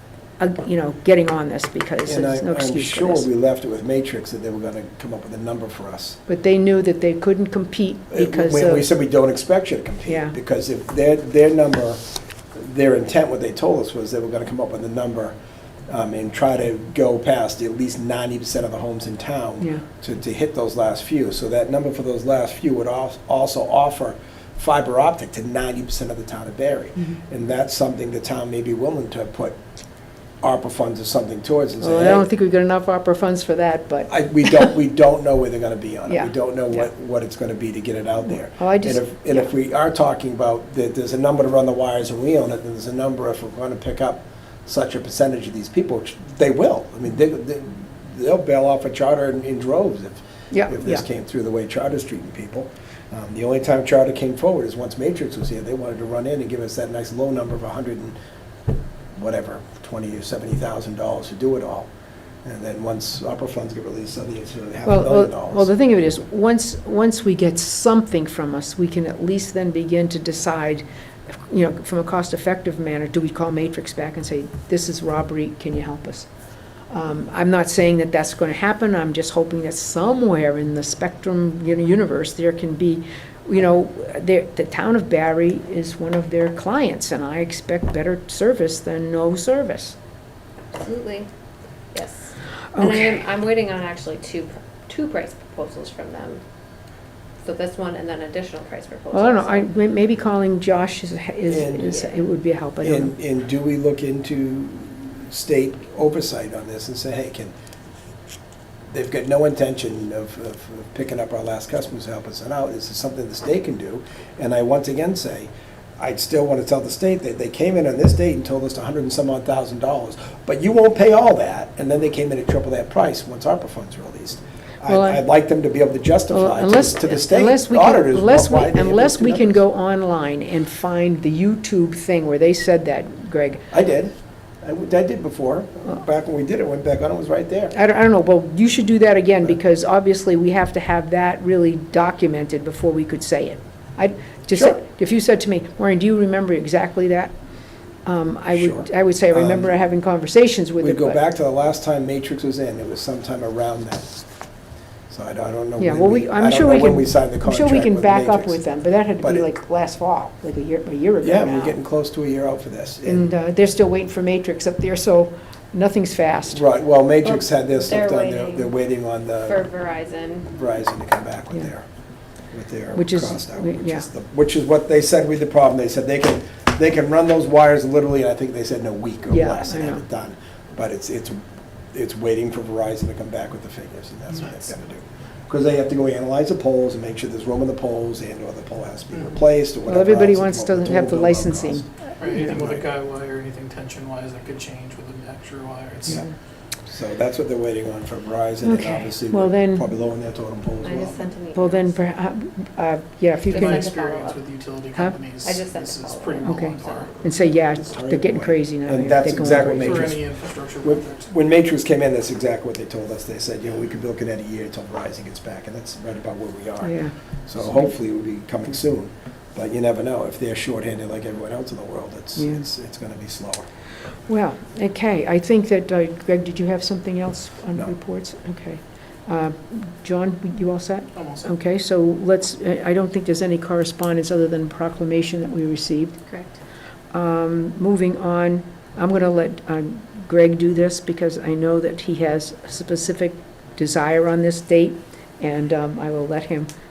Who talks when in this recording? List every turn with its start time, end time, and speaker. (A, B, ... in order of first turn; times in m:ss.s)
0:00.4-0:03.3 A
0:02.0-0:06.2 B
0:06.3-0:08.8 A
0:08.1-0:12.0 B
0:10.1-0:10.3 A
0:12.5-0:15.4 B
0:15.9-0:29.6 B
0:30.4-0:32.3 B
0:31.8-0:34.7 A
0:34.1-0:58.2 B
0:36.1-0:36.9 A
0:38.6-0:39.5 A
0:50.5-0:51.0 A
0:59.2-1:01.9 B
1:02.4-1:05.7 B
1:04.8-1:10.8 A
1:11.4-1:16.3 A
1:16.9-1:30.0 A
1:30.7-1:31.3 C
1:31.9-1:36.4 C
1:32.8-1:33.2 A
1:37.4-1:39.7 C
1:39.1-1:43.1 A
1:41.5-1:42.0 B
1:42.8-1:47.5 B
1:48.9-2:09.6 B
2:04.8-2:05.2 A
2:06.3-2:13.6 A
2:13.7-2:17.7 B
2:17.7-2:27.3 A
2:24.5-2:24.8 B
2:28.1-2:31.2 A
2:28.5-2:29.7 B
2:30.8-2:34.2 B
2:35.1-2:38.6 B
2:35.8-2:41.8 A
2:39.2-2:39.5 B
2:41.2-2:43.3 B
2:43.0-2:46.6 A
2:46.5-2:49.6 B
2:47.2-2:48.7 C
2:49.4-2:50.6 C
2:50.5-2:51.9 B
2:52.5-3:12.8 B
2:53.0-2:54.1 A
2:59.3-3:00.0 A
3:09.9-3:12.7 A
3:12.2-3:16.3 D
3:16.9-3:21.3 B
3:18.6-3:19.9 A
3:20.8-3:22.0 C
3:21.6-3:23.9 A
3:23.4-3:24.4 C
3:23.4-3:27.4 D
3:25.4-3:27.2 C
3:26.4-3:30.1 A
3:27.7-3:30.3 B
3:29.5-3:31.3 D
3:30.8-3:43.7 B
3:36.8-3:37.1 A
3:42.4-3:42.6 A
3:44.3-3:56.2 A
3:51.2-3:51.5 D
3:57.1-4:06.7 A